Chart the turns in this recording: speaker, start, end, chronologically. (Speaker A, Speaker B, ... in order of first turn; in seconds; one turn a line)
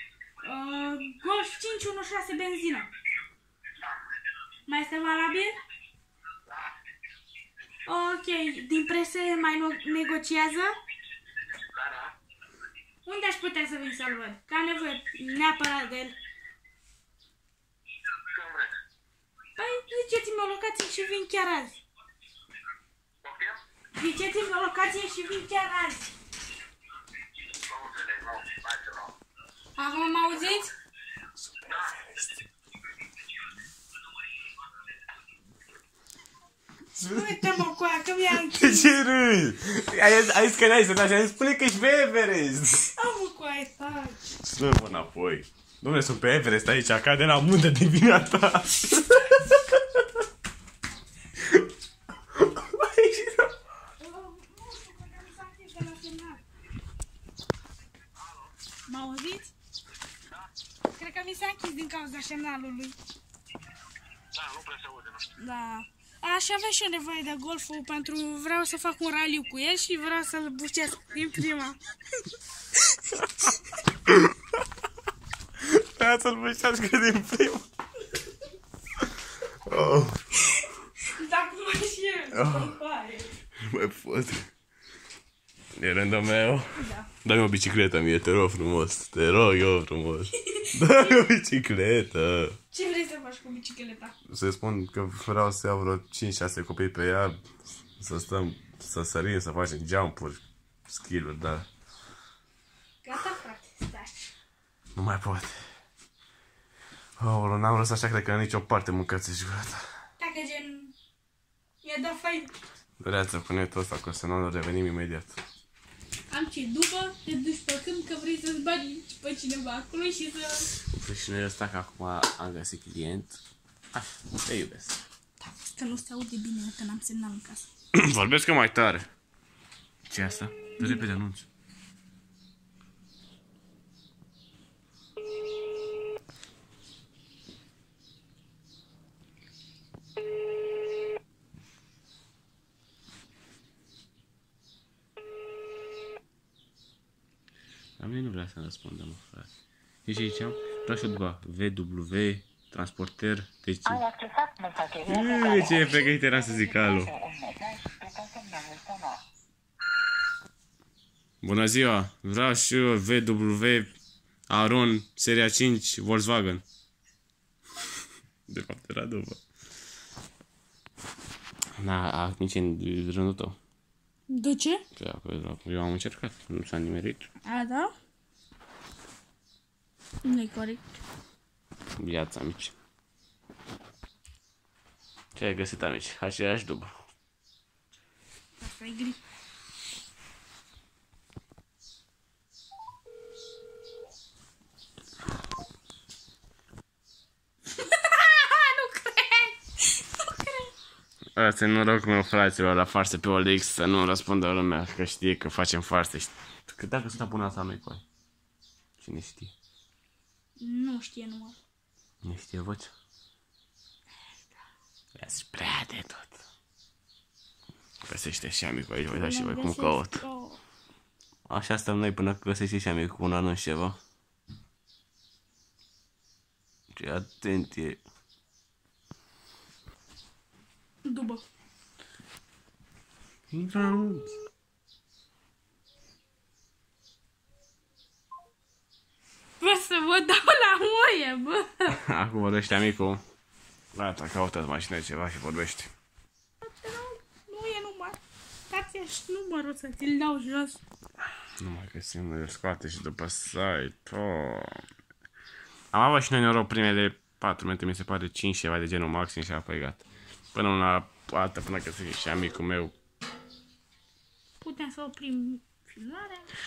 Speaker A: 0.4-2.9
Speaker A: 4.7-5.5
Speaker A: 7.8-10.8
Speaker B: 11.7-12.1
Speaker A: 13.0-16.1
Speaker B: 18.1-18.7
Speaker A: 19.6-21.8
Speaker B: 23.2-23.6
Speaker A: 23.9-26.1
Speaker B: 27.6-29.1
Speaker A: 29.8-30.7
Speaker B: 31.6-32.1
Speaker C: 36.9-37.5
Speaker A: 37.1-38.9
Speaker C: 38.3-42.9
Speaker A: 42.9-44.3
Speaker C: 44.4-50.0
Speaker C: 52.4-53.5
Speaker A: 54.0-56.4
Speaker A: 58.9-59.5
Speaker A: 60.9-63.0
Speaker B: 64.3-65.3
Speaker A: 65.4-71.8
Speaker C: 75.6-77.7
Speaker C: 79.7-80.2
Speaker A: 81.0-83.3
Speaker C: 82.3-82.8
Speaker C: 83.6-84.5
Speaker C: 85.8-92.6
Speaker A: 86.8-87.1
Speaker A: 90.5-91.0
Speaker A: 92.7-94.1
Speaker C: 94.3-97.5
Speaker C: 98.0-101.7
Speaker A: 103.0-104.3
Speaker C: 104.9-105.6
Speaker C: 107.2-109.8
Speaker A: 110.2-110.9
Speaker A: 111.8-112.5
Speaker C: 113.0-115.4
Speaker A: 116.3-120.7
Speaker C: 120.8-123.4
Speaker C: 123.9-125.0
Speaker A: 125.4-127.7
Speaker C: 127.9-129.1
Speaker C: 130.1-131.5
Speaker C: 148.0-149.5
Speaker C: 150.0-154.0
Speaker D: 153.8-159.2
Speaker C: 155.0-157.1
Speaker C: 161.4-163.9
Speaker C: 164.5-166.6
Speaker C: 168.5-169.4
Speaker C: 171.8-173.6
Speaker A: 174.3-174.8
Speaker C: 174.9-177.3
Speaker A: 177.4-177.9
Speaker A: 180.2-181.0
Speaker C: 182.0-182.7
Speaker C: 185.3-186.9
Speaker A: 188.6-189.2
Speaker A: 197.7-200.7
Speaker C: 201.3-208.0
Speaker C: 209.0-209.5
Speaker A: 210.6-211.6
Speaker C: 212.2-212.9
Speaker C: 215.1-216.3
Speaker C: 218.1-220.2
Speaker A: 219.1-220.6
Speaker C: 221.5-224.0
Speaker C: 226.9-228.0
Speaker A: 231.0-231.4
Speaker C: 233.5-234.3
Speaker A: 239.6-242.0
Speaker C: 241.9-243.2
Speaker C: 243.9-245.9
Speaker A: 246.6-250.8
Speaker C: 251.6-254.8
Speaker C: 255.9-262.9
Speaker A: 264.6-266.5